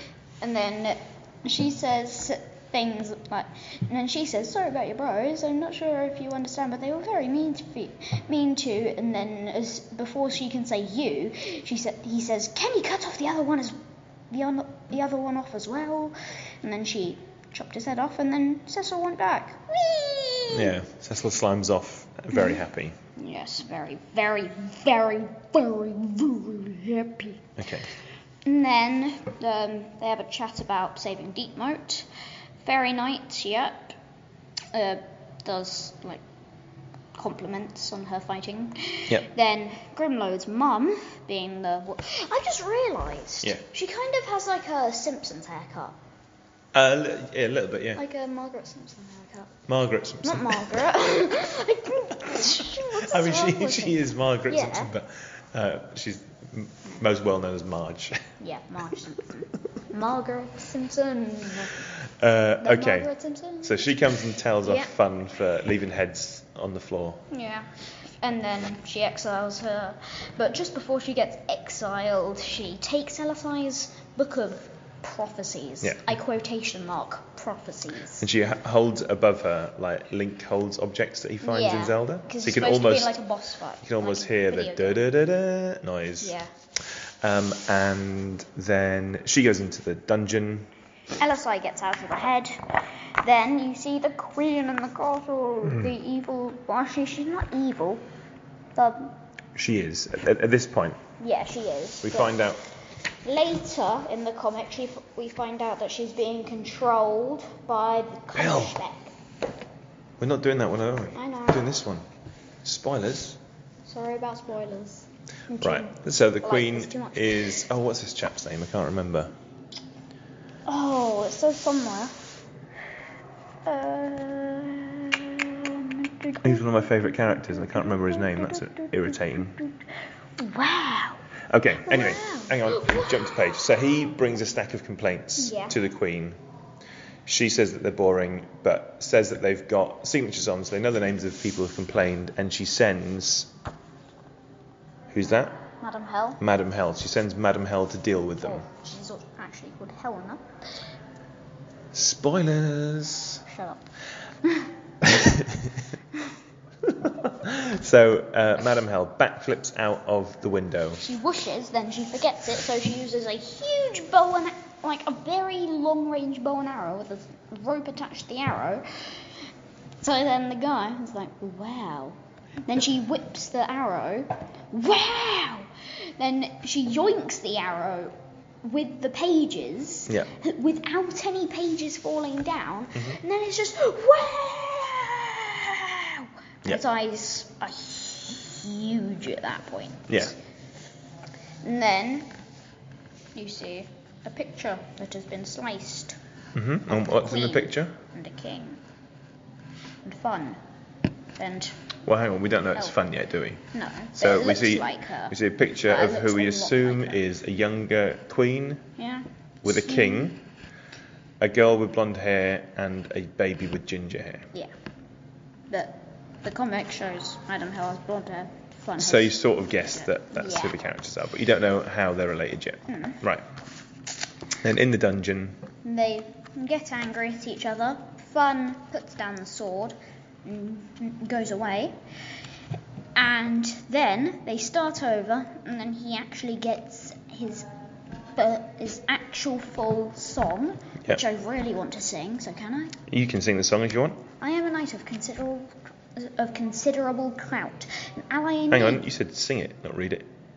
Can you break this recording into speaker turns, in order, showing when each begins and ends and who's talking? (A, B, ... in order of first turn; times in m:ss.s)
0:00.4-0:13.8 A
0:14.3-0:20.8 A
0:20.5-0:23.0 B
0:23.2-0:27.5 A
0:27.6-0:27.9 B
0:28.4-0:32.1 A
0:32.6-0:34.0 A
0:34.7-0:36.2 A
0:37.1-0:46.0 A
0:46.7-0:48.0 B
0:48.0-0:49.5 A
0:49.7-0:50.9 B
0:50.2-0:54.9 A
0:52.9-0:58.2 B
0:58.4-1:01.8 A
1:02.0-1:03.1 B
1:02.6-1:04.0 A
1:03.6-1:07.2 B
1:04.6-1:04.9 A
1:07.3-1:18.3 A
1:18.2-1:23.2 B
1:21.4-1:25.0 A
1:23.8-1:30.7 B
1:26.2-1:26.5 A
1:31.2-1:38.1 A
1:35.7-1:35.9 B
1:38.8-1:39.2 A
1:39.6-1:41.0 B
1:41.2-1:42.4 A
1:42.0-1:42.6 B
1:43.2-1:49.1 A
1:48.4-1:48.8 B
1:50.2-1:52.1 B
1:51.1-1:51.7 A
1:52.6-1:53.4 B
1:53.9-1:57.6 A
1:55.6-1:59.4 B
2:00.7-2:02.2 A
2:03.6-2:09.8 A
2:06.4-2:09.6 B
2:10.4-2:11.2 A
2:11.5-2:16.4 B
2:11.8-2:13.5 A
2:15.4-2:15.8 A
2:17.3-2:23.5 B
2:25.1-2:25.6 B
2:25.8-2:26.4 A
2:26.4-2:28.6 B
2:28.4-2:30.4 A
2:31.9-2:33.4 B
2:33.5-2:33.9 A
2:34.4-2:34.7 A
2:35.0-2:35.9 B
2:36.8-2:41.0 B
2:41.0-2:49.4 A
2:50.0-3:10.3 A
3:10.1-3:10.4 B
3:11.6-3:12.3 A
3:13.4-3:16.2 A
3:16.5-3:18.0 B
3:16.9-3:18.8 A
3:20.0-3:20.6 A
3:21.4-3:21.8 A
3:22.1-3:23.6 B
3:23.7-3:27.2 A
3:24.2-3:28.9 B
3:29.0-3:30.3 A
3:29.6-3:30.4 B
3:31.4-3:34.5 B
3:35.7-3:39.4 A
3:39.0-3:43.5 B
3:40.0-3:40.8 A
3:42.9-3:43.2 A
3:44.6-3:45.6 B
3:45.8-3:52.0 A
3:53.2-3:57.7 A
3:58.4-4:03.0 A
4:03.1-4:04.2 B
4:04.4-4:09.0 A
4:08.7-4:10.3 B